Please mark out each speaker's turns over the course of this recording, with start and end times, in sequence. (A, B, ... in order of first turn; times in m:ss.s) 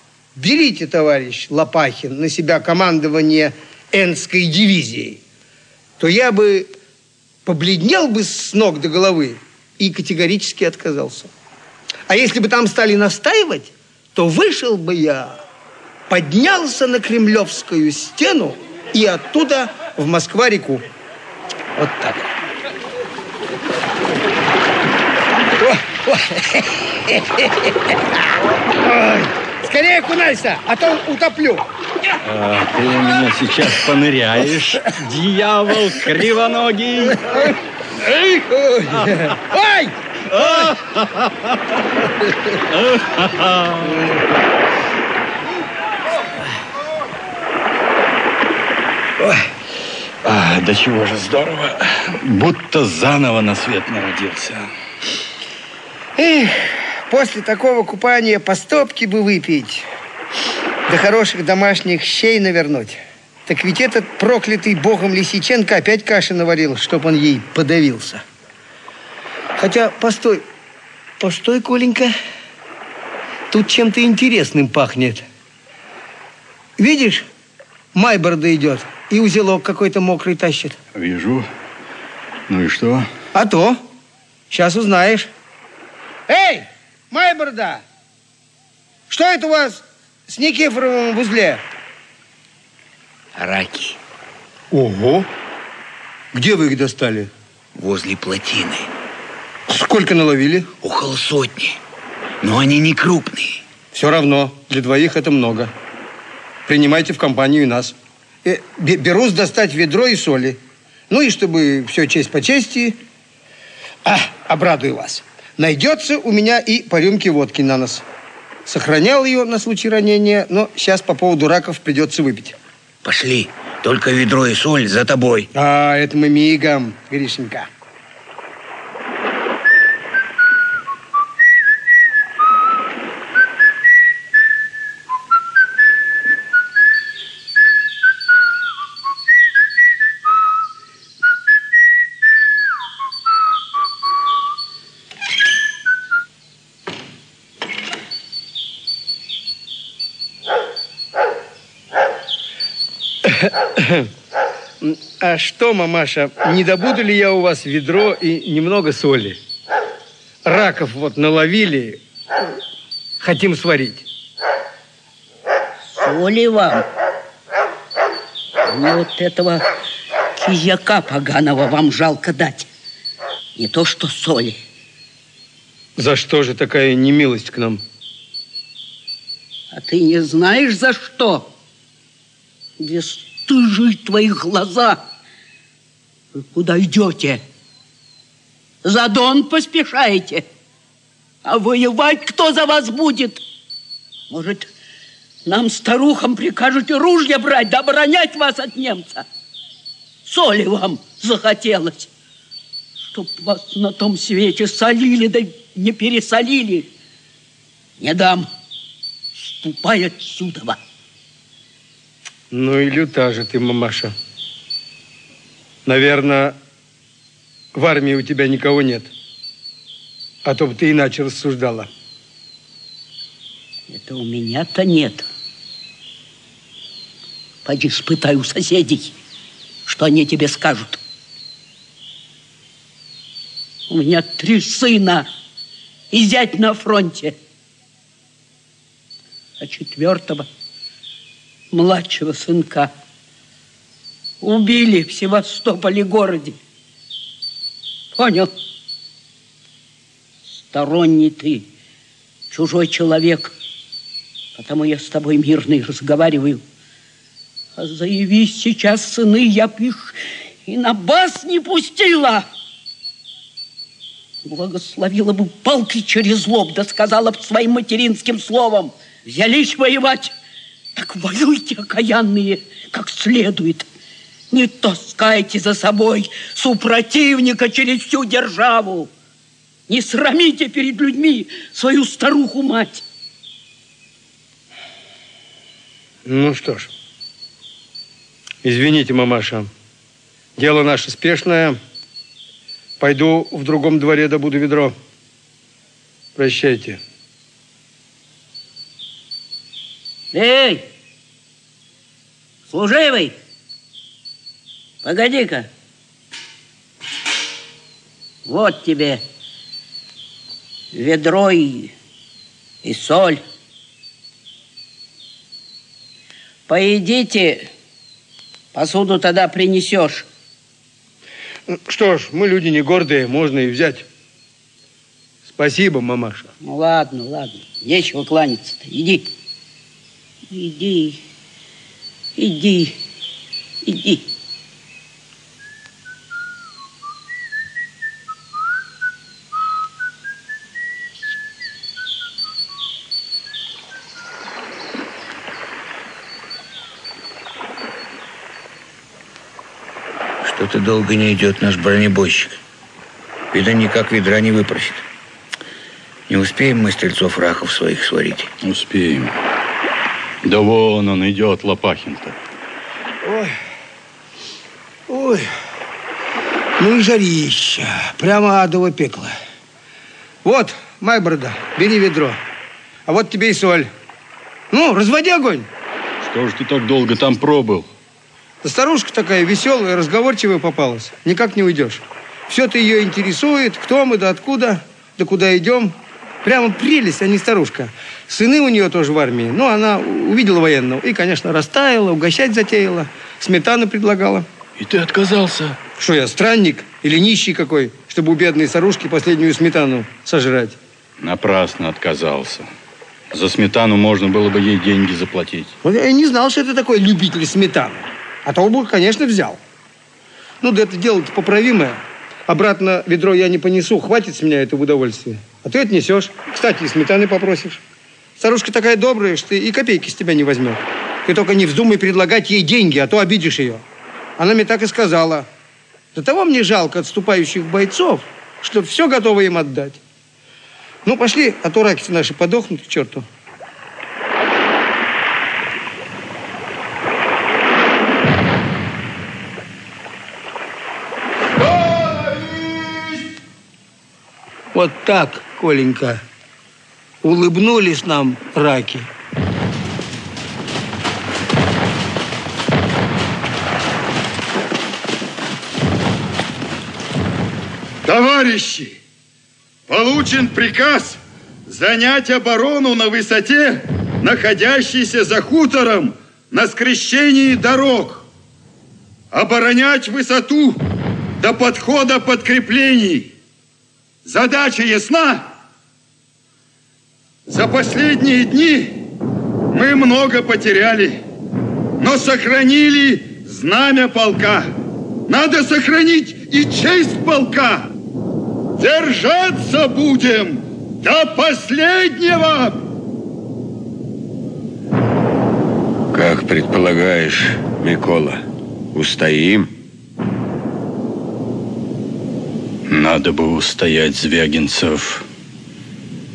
0:00.4-0:05.2 A
0:06.0-0:06.7 A
0:07.4-0:11.3 A
0:12.1-0:15.4 A
0:16.1-0:20.8 A
0:21.8-0:22.3 A
0:25.6-0:27.7 A
0:28.8-0:31.6 A
0:32.2-0:37.5 B
0:38.5-0:40.7 A
0:40.4-0:41.3 B
0:42.7-0:44.1 B
0:50.2-0:54.7 B
0:56.2-0:59.9 A
1:00.9-1:08.2 A
1:09.6-1:10.4 A
1:11.2-1:12.1 A
1:13.5-1:15.2 A
1:16.8-1:17.3 A
1:18.0-1:20.8 A
1:21.0-1:21.5 B
1:22.5-1:23.1 B
1:23.4-1:23.8 A
1:24.5-1:25.3 A
1:26.3-1:27.8 A
1:29.1-1:31.6 A
1:33.4-1:34.0 C
1:34.7-1:35.3 A
1:36.3-1:37.3 A
1:37.8-1:38.9 C
1:39.7-1:40.7 A
1:40.8-1:41.8 C
1:42.4-1:43.6 C
1:43.9-1:45.7 A
1:46.7-1:50.6 A
1:51.1-1:53.0 A
1:54.0-1:58.0 A
1:58.7-2:02.6 A
2:03.0-2:05.5 C
2:05.5-2:07.7 A
2:33.2-2:34.1 A
2:34.8-2:39.4 A
2:40.4-2:42.0 A
2:43.2-2:44.0 A
2:46.0-2:46.8 D
2:48.7-2:49.6 D
2:50.4-2:52.7 D
2:53.6-2:54.6 D
2:56.0-2:57.8 A
2:59.7-3:01.5 D
3:02.8-3:05.0 D
3:06.4-3:07.4 D
3:08.8-3:10.4 D
3:11.4-3:13.4 D
3:14.3-3:14.7 D
3:15.4-3:19.3 D
3:20.2-3:22.1 D
3:23.1-3:26.9 D
3:28.0-3:28.5 D
3:29.4-3:30.8 D
3:32.5-3:34.1 A
3:35.9-3:36.6 A
3:37.8-3:39.1 A
3:40.4-3:41.9 A
3:43.9-3:45.3 D
3:47.6-3:49.2 D
3:49.9-3:51.0 D
3:53.9-3:55.3 D
3:56.1-3:57.4 D
3:59.6-4:00.5 D
4:01.7-4:02.9 D
4:04.4-4:06.6 D
4:08.2-4:08.5 D
4:10.7-4:11.7 D
4:12.5-4:13.5 D
4:14.6-4:16.6 D
4:17.8-4:22.5 D
4:24.4-4:30.3 D
4:31.0-4:33.9 D
4:34.5-4:39.1 D
4:39.9-4:43.0 D
4:46.3-4:46.9 A
4:48.6-4:49.7 A
4:50.6-4:51.8 A
4:53.0-4:55.0 A
4:56.4-4:57.0 A
5:00.3-5:00.9 D
5:02.7-5:03.4 D
5:05.0-5:05.7 D
5:08.5-5:09.2 D
5:10.9-5:11.9 D
5:12.8-5:13.4 D
5:16.7-5:17.7 D
5:18.7-5:20.3 D
5:21.7-5:24.0 A
5:25.5-5:26.5 A
5:26.6-5:29.3 D
5:30.5-5:31.2 D
5:32.4-5:33.0 D
5:33.8-5:34.2 D
5:50.4-5:52.6 C
5:53.5-5:55.1 C
5:56.3-5:58.5 C
5:58.6-5:59.3 B
6:00.4-6:02.4 B
6:03.2-6:03.5 A
6:05.1-6:05.5 A
6:06.8-6:09.3 A
6:10.4-6:12.4 A
6:13.1-6:13.9 A
6:14.7-6:15.7 A
6:16.2-6:17.9 B
6:18.6-6:34.5 A
6:34.8-6:35.8 B
6:36.0-6:40.8 A
6:41.2-6:42.7 B
6:43.3-6:45.8 B
6:45.8-6:49.6 A
6:50.6-6:57.8 A
6:58.4-7:03.8 A
7:04.4-7:05.5 A
7:06.2-7:10.0 A
7:11.0-7:13.2 A
7:24.7-7:26.2 A
7:27.2-7:29.1 A
7:38.0-7:39.0 E
7:39.9-7:48.3 E
7:49.3-7:50.8 E
7:51.4-7:53.3 E
7:54.2-7:55.5 E
7:57.5-7:59.0 E
7:59.7-8:01.2 E
8:02.0-8:04.7 E
8:05.3-8:07.9 E
8:08.8-8:12.8 E
8:16.1-8:18.4 F
8:18.9-8:19.7 F
8:22.9-8:25.3 B